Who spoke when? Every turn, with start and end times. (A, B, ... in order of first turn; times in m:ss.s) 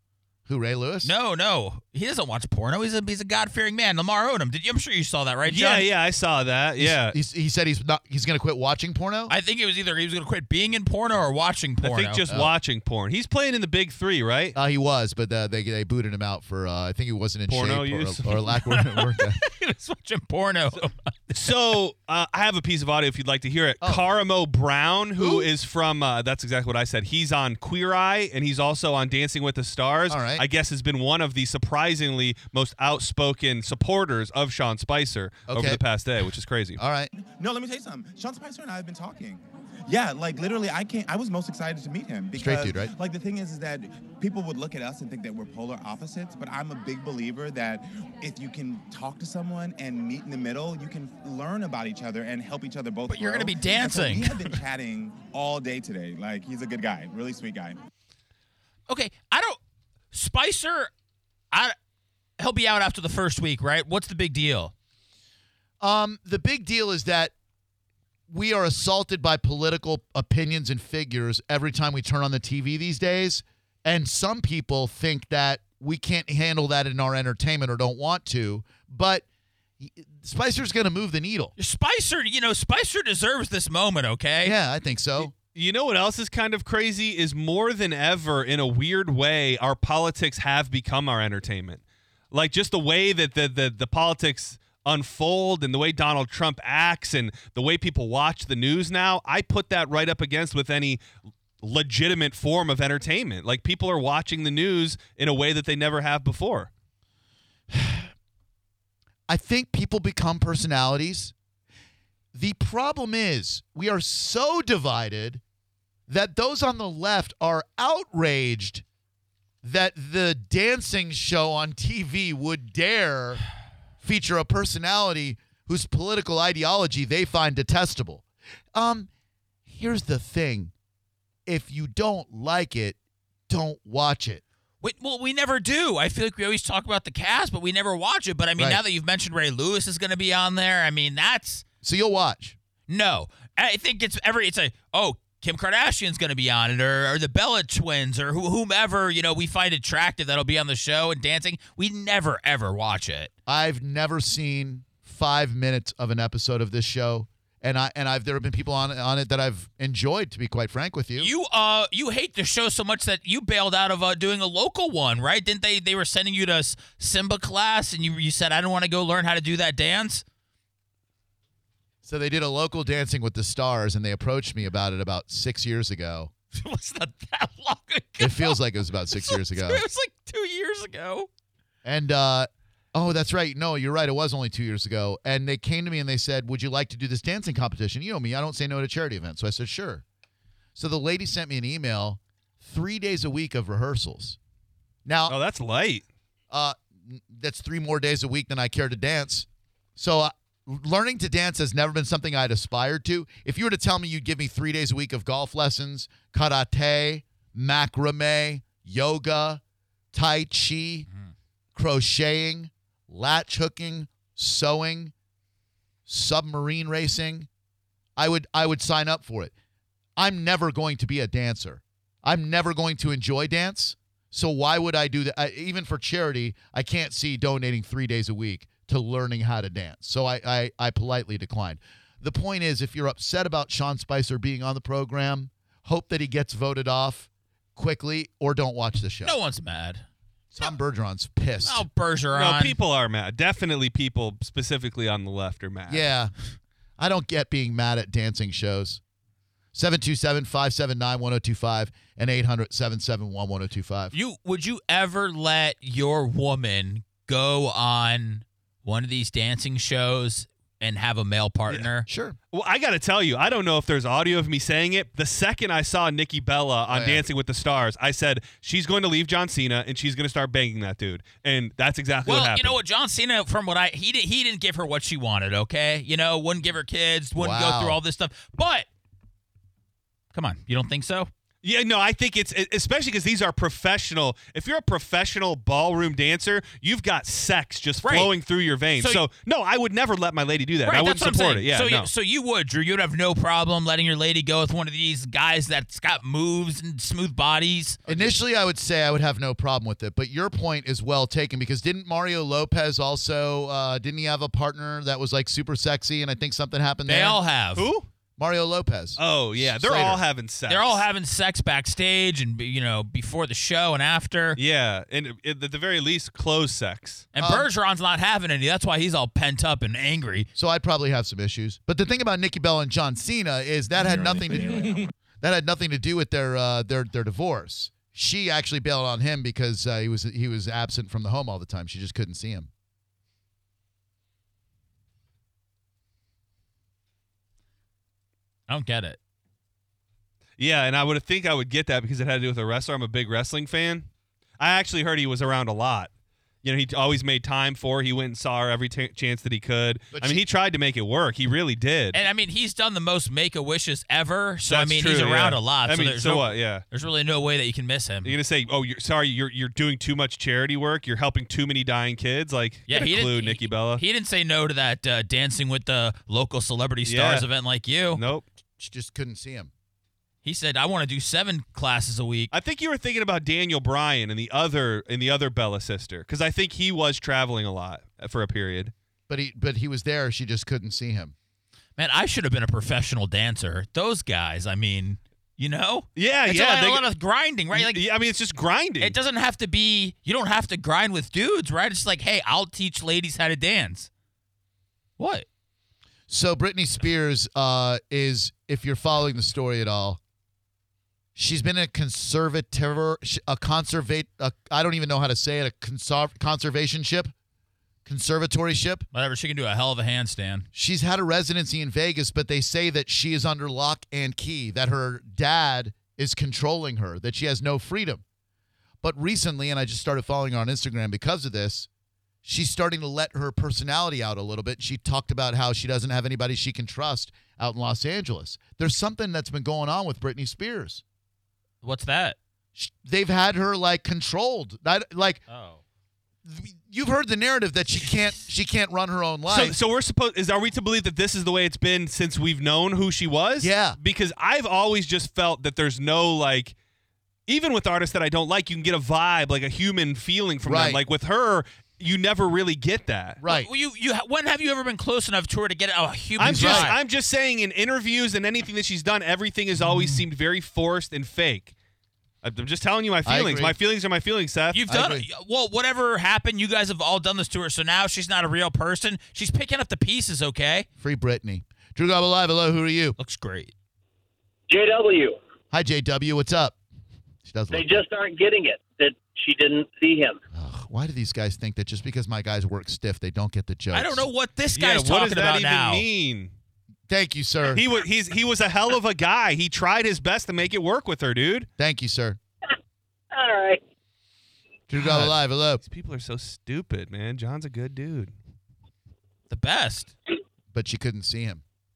0:00.4-0:01.1 A
0:01.0-0:05.9 B
0:05.4-0:07.2 C
0:06.8-0:09.3 A
0:09.3-0:12.2 B
0:11.8-0:14.6 C
0:12.3-0:12.5 A
0:14.5-0:19.4 A
0:17.5-0:18.5 C
0:18.7-0:21.4 B
0:21.3-0:36.8 C
0:25.2-0:25.5 A
0:30.1-0:30.4 A
0:35.5-0:35.8 A
0:36.8-0:37.1 A
0:37.1-0:57.8 D
0:42.4-0:42.9 A
0:53.1-0:54.5 B
0:58.9-0:59.6 B
1:00.1-1:00.9 B
1:02.4-1:04.7 B
1:05.8-1:07.3 A
1:08.3-1:19.2 A
1:19.8-1:21.5 A
1:21.6-1:24.5 B
1:24.4-1:25.3 A
1:25.2-1:41.0 C
1:41.6-1:46.7 C
1:47.7-1:48.1 A
1:49.3-1:51.3 A
1:52.3-1:55.4 A
1:56.1-1:58.8 A
1:59.6-2:03.4 A
2:04.0-2:08.2 A
2:08.7-2:09.1 A
2:09.7-2:10.7 A
2:11.4-2:13.0 A
2:13.5-2:14.4 A
2:14.8-2:21.6 B
2:18.6-2:18.8 A
2:21.8-2:22.6 A
2:22.9-2:33.3 B
2:33.5-2:41.3 A
2:41.2-2:50.2 B
2:52.0-2:56.3 A
2:56.5-2:58.6 B
2:58.2-2:59.8 A
2:59.1-3:01.3 B
3:01.8-3:10.0 A
3:10.8-3:14.4 A
3:15.0-3:15.4 A
3:15.3-3:16.0 C
3:16.5-3:29.6 A
3:30.1-3:31.0 A
3:31.7-3:35.1 A
3:36.1-3:37.5 A
3:38.2-3:39.5 A
3:40.2-3:59.3 A
3:59.2-4:00.0 B
4:00.5-4:01.8 A
4:01.6-4:02.8 B
4:02.3-4:06.0 C
4:05.9-4:06.3 A
4:07.0-4:09.0 A
4:09.7-4:14.1 A
4:14.1-4:22.0 B
4:21.7-4:22.4 A
4:22.5-4:32.8 C
4:26.9-4:27.2 A
4:32.2-4:38.8 B
4:37.4-4:38.0 A
4:40.3-4:41.3 B
4:41.6-4:52.1 C
4:48.0-4:48.3 B
4:49.0-4:49.2 B
4:50.8-4:58.0 B
4:58.0-4:58.3 C
4:58.1-5:07.4 A
5:07.1-5:07.9 B
5:07.8-5:08.1 C
5:08.4-5:10.2 A
5:09.2-5:11.0 C
5:10.7-5:14.6 B
5:14.6-5:17.3 C
5:17.3-5:20.5 B
5:17.4-5:17.7 A
5:20.6-5:24.9 A
5:24.2-5:25.1 D
5:25.4-5:32.7 A
5:38.7-5:39.2 B
5:40.6-5:44.1 C
5:44.6-5:46.1 C
5:46.6-5:52.2 C
5:50.1-5:50.4 A
5:52.1-5:58.3 B
5:54.7-5:56.8 C
5:58.2-6:04.0 C
6:02.9-6:08.2 B
6:07.0-6:07.5 C
6:08.1-6:08.4 C
6:08.8-6:09.7 A
6:10.4-6:12.5 B
6:12.5-6:18.9 C
6:19.3-6:21.3 A
6:22.0-6:28.0 B
6:26.2-6:27.1 C
6:27.7-6:29.2 C
6:29.0-6:34.1 B
6:35.2-6:35.4 B
6:36.3-6:40.2 A
6:41.4-6:47.3 A
6:48.0-6:49.0 A
6:49.1-6:50.7 B
6:50.7-6:58.2 A
6:59.0-7:01.9 A
7:02.4-7:11.0 A
7:11.8-7:12.4 B
7:12.8-7:15.4 A
7:15.5-7:15.8 B
7:16.4-7:19.8 A
7:19.5-7:26.7 C
7:23.6-7:24.0 A
7:27.5-7:33.4 C
7:30.6-7:31.0 A
7:33.4-7:33.7 A
7:33.4-7:37.0 B
7:36.4-7:41.7 C
7:36.4-7:36.9 A
7:42.4-7:44.8 C
7:43.2-7:43.7 A
7:44.7-7:50.8 B
7:44.9-7:45.2 A
7:51.0-7:53.2 A
7:53.2-7:53.7 B
7:54.7-7:55.4 E
7:55.7-7:56.8 A
7:57.4-7:58.0 A
7:57.7-8:00.4 E
8:00.5-8:04.2 A
8:03.9-8:06.0 B
8:04.7-8:06.5 C
8:07.1-8:07.8 A
8:07.7-8:11.7 C
8:11.8-8:12.4 A
8:13.3-8:13.8 E
8:14.9-8:15.8 A
8:15.0-8:18.3 C
8:19.5-8:20.1 B
8:20.7-8:21.6 A